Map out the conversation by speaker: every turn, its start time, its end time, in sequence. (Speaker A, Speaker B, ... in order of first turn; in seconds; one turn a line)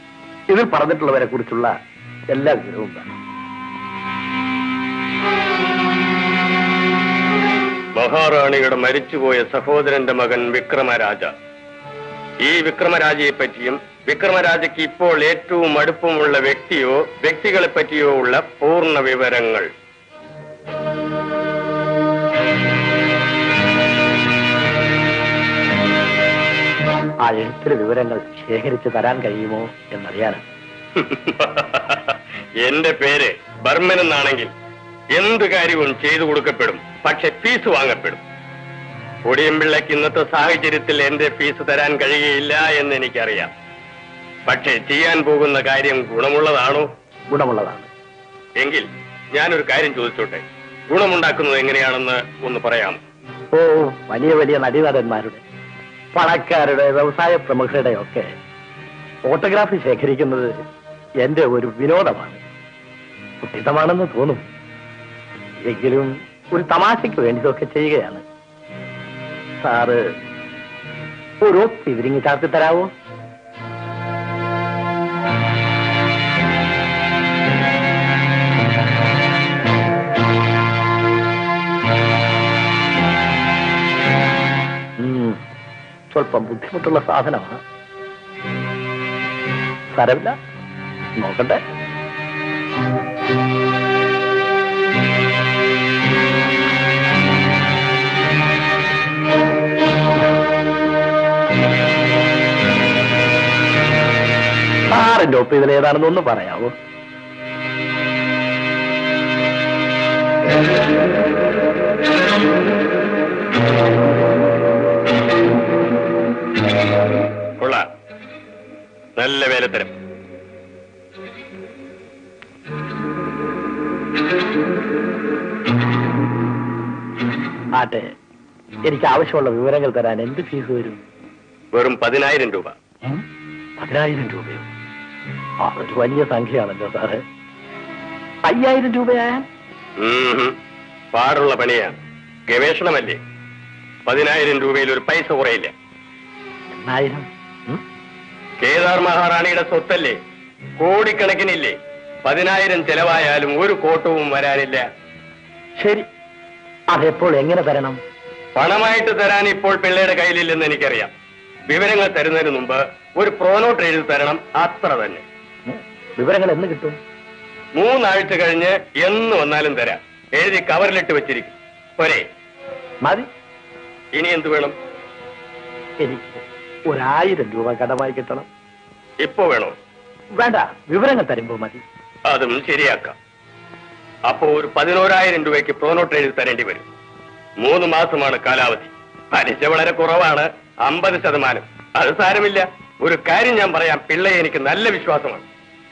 Speaker A: 0.5-1.7
Speaker A: 2.3-3.2
Speaker B: 8.0-11.3
Speaker B: 12.4-19.7
Speaker A: 27.2-30.4
Speaker B: 31.0-34.5
Speaker B: 35.1-38.2
Speaker B: 39.2-43.5
Speaker B: 44.5-46.9
Speaker A: 47.3-47.9
Speaker B: 48.6-53.0
Speaker A: 53.5-55.4
Speaker A: 56.1-58.3
Speaker A: 59.3-60.5
Speaker A: 61.2-62.4
Speaker A: 63.4-64.5
Speaker A: 65.6-68.2
Speaker A: 69.6-70.0
Speaker A: 71.4-72.9
Speaker A: 85.0-85.4
Speaker A: 86.1-87.6
Speaker A: 89.9-90.3
Speaker A: 91.2-91.6
Speaker A: 104.9-106.7
Speaker B: 117.6-117.8
Speaker B: 119.2-120.0
Speaker A: 127.8-128.1
Speaker A: 128.8-131.0
Speaker B: 131.7-132.8
Speaker A: 133.8-134.7
Speaker A: 135.6-137.2
Speaker A: 138.5-139.4
Speaker B: 140.0-140.5
Speaker B: 141.1-143.2
Speaker B: 144.1-145.7
Speaker A: 146.7-147.8
Speaker B: 148.6-150.2
Speaker B: 150.8-154.9
Speaker A: 155.8-156.1
Speaker A: 156.9-158.0
Speaker B: 158.6-161.1
Speaker B: 161.7-165.2
Speaker A: 165.7-167.0
Speaker B: 167.8-172.2
Speaker B: 174.2-174.8
Speaker A: 176.0-178.5
Speaker B: 179.2-179.8
Speaker A: 180.4-181.8
Speaker B: 182.3-183.2
Speaker B: 184.3-186.9
Speaker B: 187.6-195.4